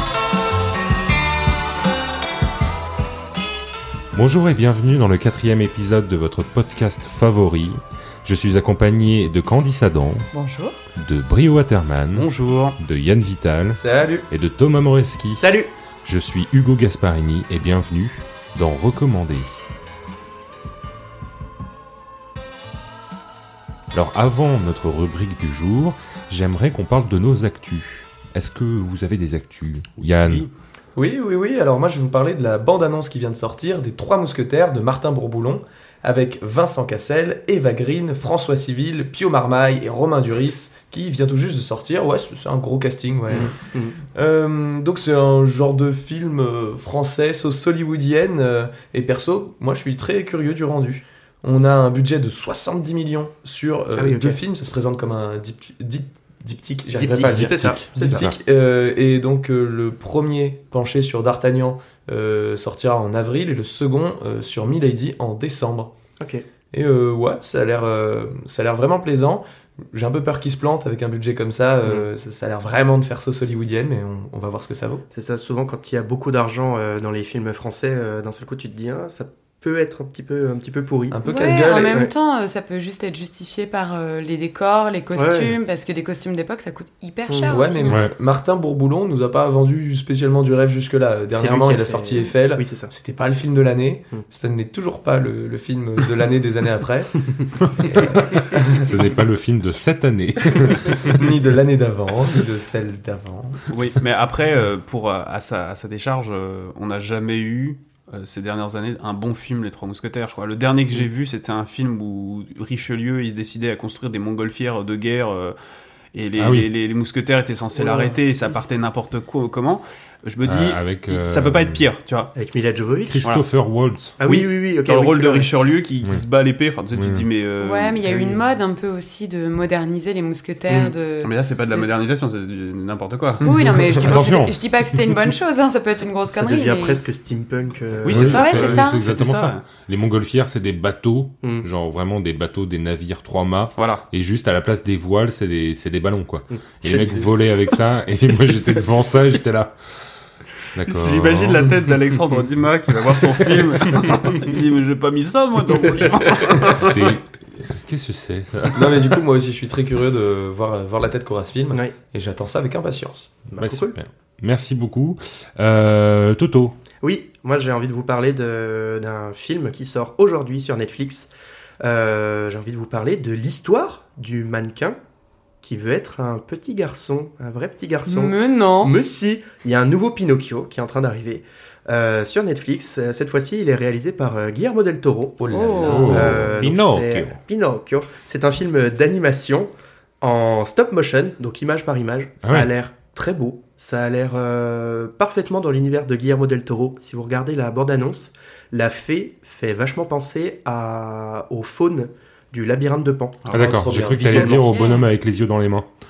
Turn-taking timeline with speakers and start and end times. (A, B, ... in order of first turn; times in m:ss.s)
0:04.1-0:10.2 A
0:10.3-0:10.8 B
0:11.0-0:12.3 A
0:12.1-0:12.8 C
0:12.8-0:15.5 A
0:13.7-0:14.3 D
0:15.4-0:15.7 E
0:16.0-0:19.6 A
0:23.9-0:30.5 A
0:31.0-0:43.6 D
0:43.3-0:44.0 E
0:44.1-1:05.9 D
0:53.9-0:54.4 E
0:57.0-0:58.3 E
0:57.2-0:58.4 A
1:06.2-1:06.4 E
1:06.7-1:15.0 D
1:15.1-1:21.3 E
1:21.1-1:22.0 D
1:21.3-1:28.0 B
1:21.8-1:22.1 E
1:25.1-1:25.6 E
1:27.3-1:27.6 E
1:27.5-1:38.9 D
1:27.9-1:28.1 A
1:31.3-1:32.9 E
1:37.7-1:41.2 A
1:41.1-1:43.7 D
1:43.7-1:55.6 C
1:56.1-2:02.3 C
1:56.4-1:56.7 A
1:57.7-1:58.2 E
2:00.4-2:01.9 A
2:02.3-2:03.3 E
2:03.1-2:04.2 A
2:04.2-2:05.5 E
2:04.2-2:08.0 C
2:06.9-2:07.3 A
2:07.6-2:11.9 B
2:08.0-2:08.4 E
2:10.7-2:13.4 C
2:13.4-2:17.0 B
2:13.4-2:13.7 D
2:14.0-2:14.6 A
2:16.3-2:18.8 E
2:18.0-2:19.7 C
2:18.1-2:29.8 A
2:18.3-2:19.0 B
2:23.8-2:24.0 C
2:26.5-2:27.3 E
2:30.7-2:31.8 A
2:30.9-2:37.0 C
2:36.2-2:36.8 E
2:36.8-2:39.1 A
2:38.8-2:43.5 D
2:43.5-2:44.0 E
2:43.6-2:46.8 A
2:47.0-2:55.0 E
2:55.6-3:09.7 E
2:58.1-2:59.0 B
3:05.4-3:06.7 D
3:05.5-3:06.3 B
3:05.9-3:07.4 A
3:10.2-3:24.6 E
3:12.4-3:12.7 A
3:23.5-3:24.7 D
3:23.5-3:25.9 A
3:24.7-3:25.0 B